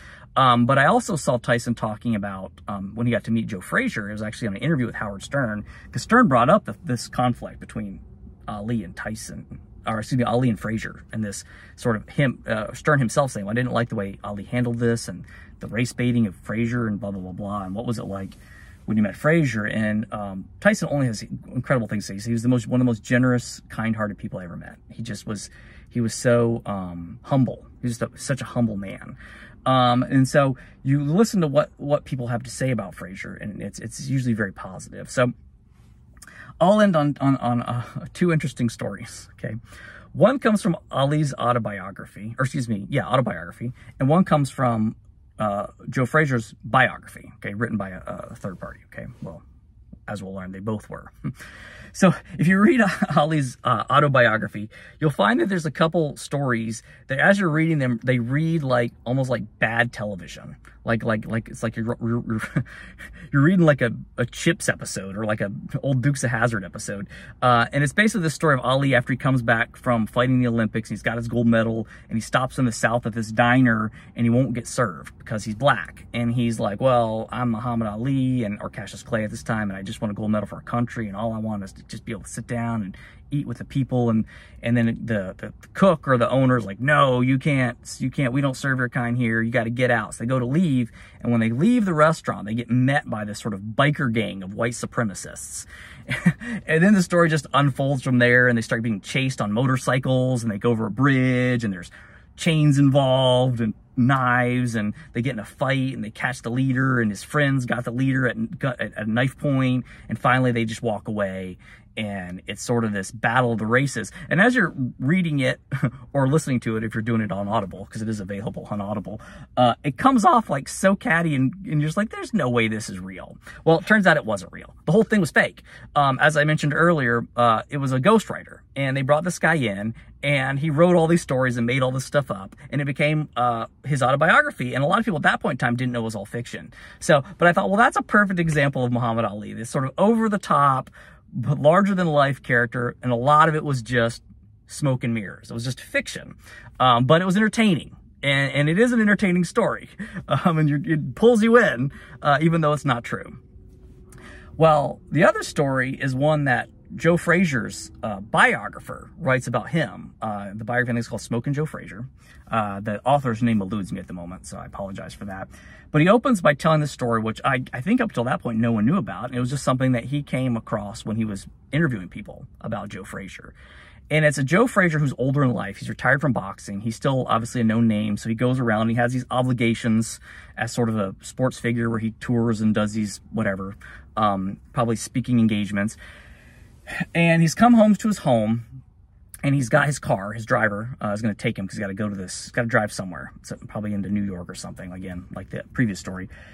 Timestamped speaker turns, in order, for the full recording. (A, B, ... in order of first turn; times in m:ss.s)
0:00.4-0:35.3 A
0:36.6-0:39.6 A
0:40.1-0:49.4 A
0:50.1-0:51.3 A
0:51.9-1:02.7 A
1:03.3-2:33.4 A
2:34.6-2:53.5 A
2:54.1-3:06.0 A
3:07.1-3:08.6 A
3:09.4-3:16.3 A